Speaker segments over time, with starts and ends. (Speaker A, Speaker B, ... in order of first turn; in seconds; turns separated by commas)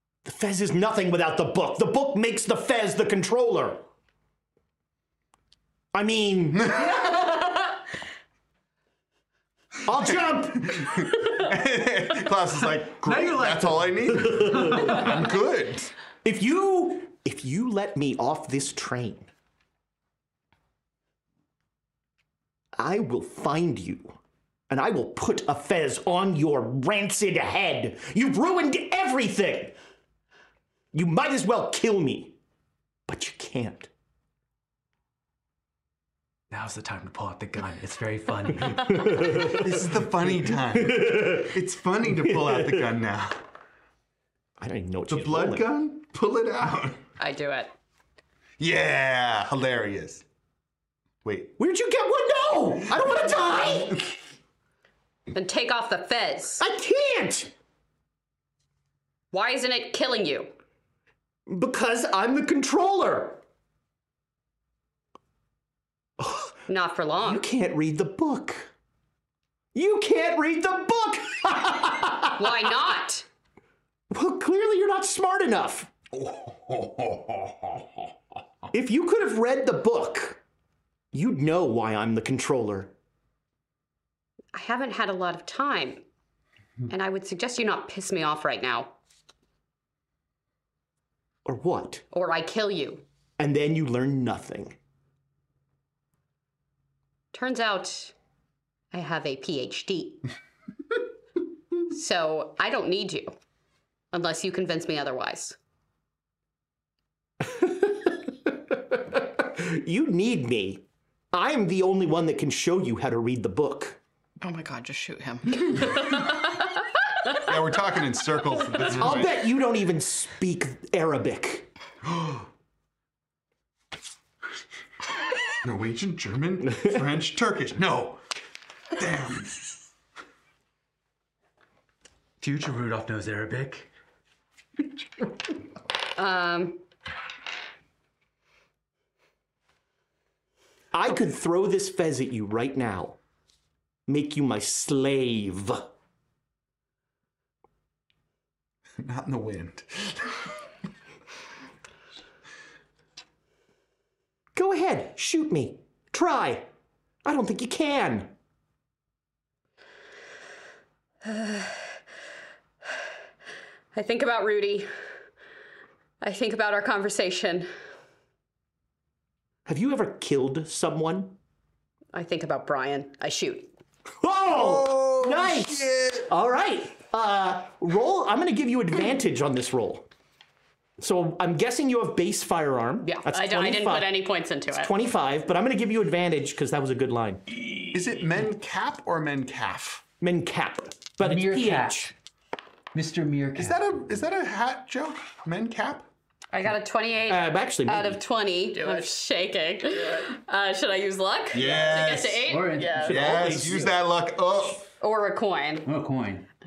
Speaker A: 0.2-3.8, Speaker A: 5.9-7.1, Speaker B: 6.5-7.0, Speaker A: 9.9-11.0, Speaker B: 10.0-15.9, Speaker C: 12.6-15.1, Speaker A: 14.1-15.0, Speaker A: 16.2-19.3, Speaker A: 22.8-24.2, Speaker A: 24.7-29.8, Speaker A: 30.9-32.4, Speaker A: 33.1-33.9, Speaker C: 36.5-39.0, Speaker A: 39.1-39.6, Speaker B: 39.1-43.4, Speaker A: 40.7-41.5, Speaker A: 42.1-42.9, Speaker A: 44.6-45.7, Speaker B: 45.1-47.0, Speaker D: 47.2-47.7, Speaker B: 48.6-50.2, Speaker B: 51.2-51.5, Speaker A: 51.6-54.0, Speaker D: 55.3-56.6, Speaker A: 56.6-57.5, Speaker D: 59.3-60.5, Speaker A: 61.5-63.4, Speaker A: 66.2-66.5, Speaker D: 66.7-67.4, Speaker A: 67.2-68.7, Speaker A: 69.7-72.6, Speaker D: 72.4-73.3, Speaker A: 74.1-75.9, Speaker B: 76.1-78.1, Speaker A: 78.7-80.4, Speaker A: 81.1-82.9, Speaker D: 84.5-86.0, Speaker D: 86.9-88.9, Speaker A: 91.5-92.0, Speaker D: 92.1-93.0, Speaker A: 93.4-94.8, Speaker D: 97.3-98.1, Speaker D: 98.9-100.2, Speaker D: 101.9-103.3, Speaker D: 104.1-105.6, Speaker A: 107.4-114.0, Speaker E: 114.4-116.3, Speaker B: 117.4-119.4, Speaker A: 118.9-121.7, Speaker B: 122.0-122.5, Speaker B: 125.6-128.2, Speaker B: 129.0-129.8, Speaker C: 132.4-133.9, Speaker D: 136.2-136.8, Speaker A: 140.9-143.2, Speaker A: 144.1-145.8, Speaker B: 149.0-150.5, Speaker A: 154.6-156.7, Speaker A: 157.2-158.3, Speaker D: 161.2-161.9, Speaker D: 163.9-164.9, Speaker D: 166.2-167.7, Speaker A: 169.7-171.4, Speaker D: 172.1-173.7, Speaker A: 174.2-180.1, Speaker B: 174.5-176.3, Speaker A: 181.0-184.2, Speaker D: 183.0-184.9, Speaker A: 184.7-187.4, Speaker B: 187.9-190.1, Speaker A: 190.2-192.1, Speaker C: 191.2-192.1, Speaker C: 192.9-193.8, Speaker B: 193.6-196.1, Speaker D: 196.5-203.2, Speaker A: 197.3-198.2, Speaker E: 198.8-199.2, Speaker E: 199.8-200.3, Speaker B: 201.5-202.5, Speaker C: 202.5-203.9, Speaker A: 203.0-203.9, Speaker B: 203.1-204.9, Speaker D: 205.0-205.9, Speaker C: 205.8-206.5